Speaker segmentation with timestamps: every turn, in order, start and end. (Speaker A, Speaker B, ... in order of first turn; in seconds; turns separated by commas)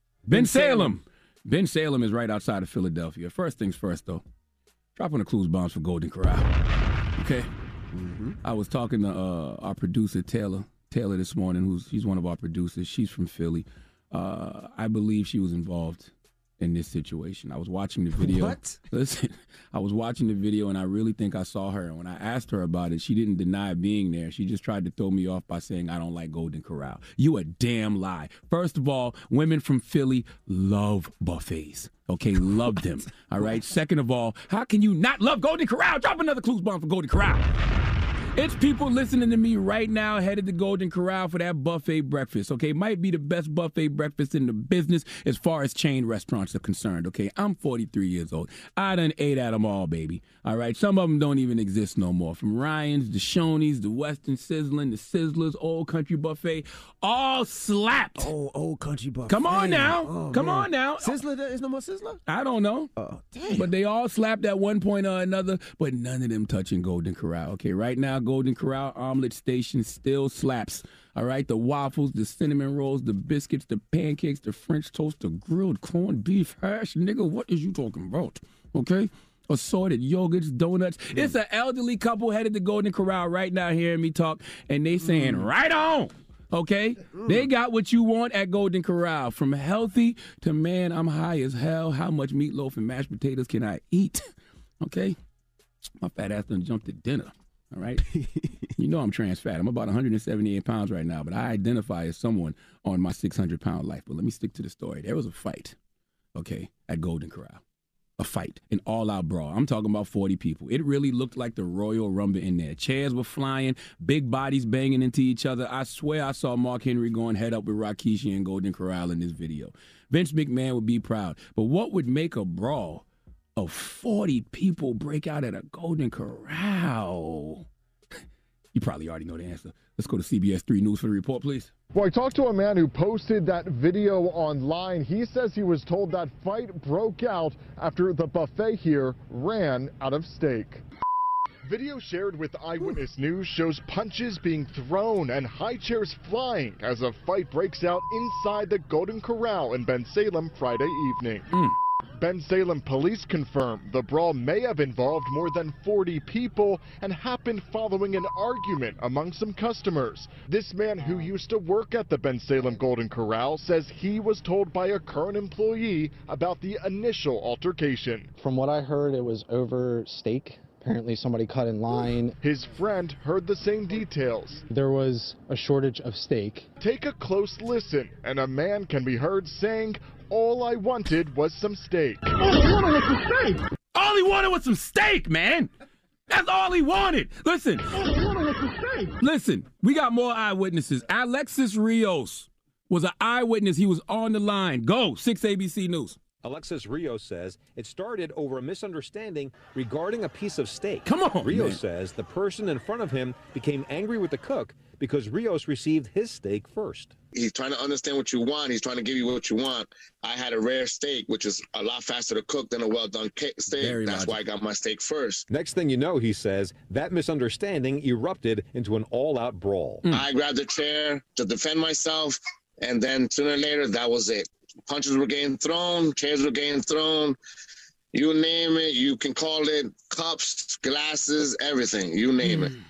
Speaker A: 0.3-1.0, Speaker B: 0.3-4.2, Speaker B: 5.0-6.5, Speaker B: 7.2-7.5, Speaker A: 7.9-8.4, Speaker B: 8.4-37.5, Speaker A: 18.2-18.8, Speaker B: 38.4-58.3, Speaker A: 58.2-62.2, Speaker B: 59.3-61.2, Speaker B: 62.3-62.9, Speaker A: 63.0-63.7, Speaker B: 63.5-94.2, Speaker A: 85.0-85.5, Speaker A: 87.2-87.4, Speaker B: 94.8-95.2, Speaker B: 96.0-98.1, Speaker A: 98.1-98.5, Speaker B: 98.8-105.8, Speaker B: 106.3-107.6, Speaker B: 108.2-123.0, Speaker B: 123.6-127.7, Speaker B: 128.8-131.7, Speaker C: 131.9-140.8, Speaker C: 141.7-151.5, Speaker C: 152.2-168.3, Speaker D: 168.4-172.4, Speaker C: 172.4-174.6, Speaker D: 174.7-176.7, Speaker C: 176.8-182.2, Speaker B: 183.9-185.7, Speaker B: 186.3-188.0, Speaker B: 189.2-196.2, Speaker E: 196.4-207.2, Speaker B: 201.1-201.8, Speaker F: 207.3-215.4, Speaker B: 213.7-214.5, Speaker E: 215.5-220.1, Speaker F: 220.1-227.4, Speaker F: 228.1-232.7